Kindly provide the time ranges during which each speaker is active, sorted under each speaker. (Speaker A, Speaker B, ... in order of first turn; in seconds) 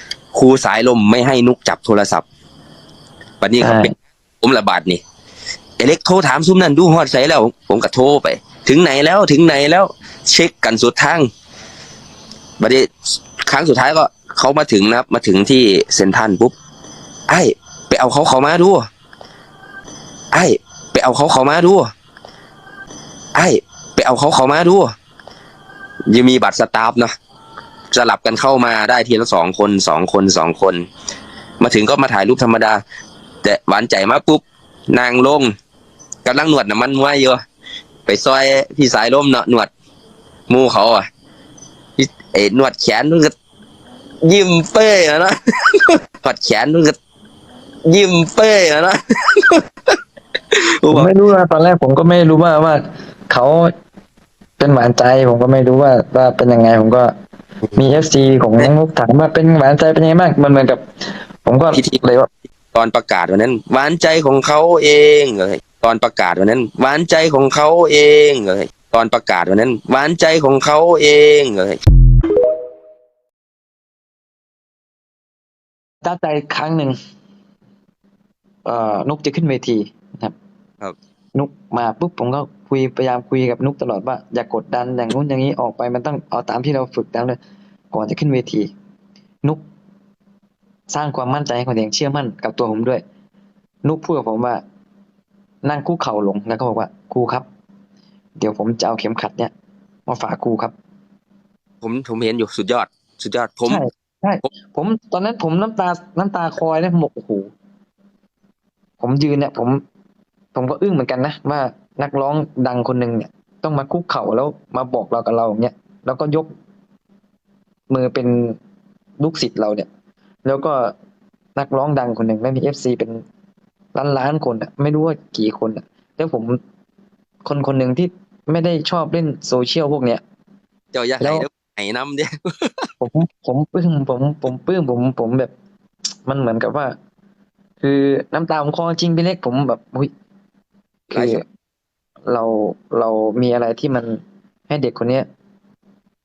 Speaker A: 0.3-2.2, 3.4-5.0, 5.8-11.3, 12.6-12.9, 13.5-16.5, 17.3-18.8, 20.3-21.9, 23.3-24.9, 26.1-27.1, 27.9-30.8, 31.6-32.8, 33.4-35.5, 36.2-37.4, 38.0-39.7, 40.5-41.1, 42.0-43.3, 44.2-47.0, 47.9-49.6, 50.8-51.1, 61.7-62.0, 62.7-71.8, 101.8-103.8, 130.9-132.9, 141.1-141.4
Speaker B: 3.6-3.9, 50.9-53.7, 54.6-57.1, 57.7-60.8, 61.4-62.3, 76.0-76.9, 78.6-80.3, 81.3-87.4, 87.9-88.7, 90.9-93.0, 93.8-94.6, 95.6-97.5, 98.4-99.5, 100.1-100.7, 103.7-107.5, 109.0-109.8, 110.5-116.5, 117.9-118.6, 119.2-119.9, 120.4-120.9, 121.5-123.2, 123.9-126.6, 127.4-130.2, 131.2-131.5, 133.0-135.5, 136.2-136.9, 137.8-140.1, 141.1-141.4, 142.3-145.3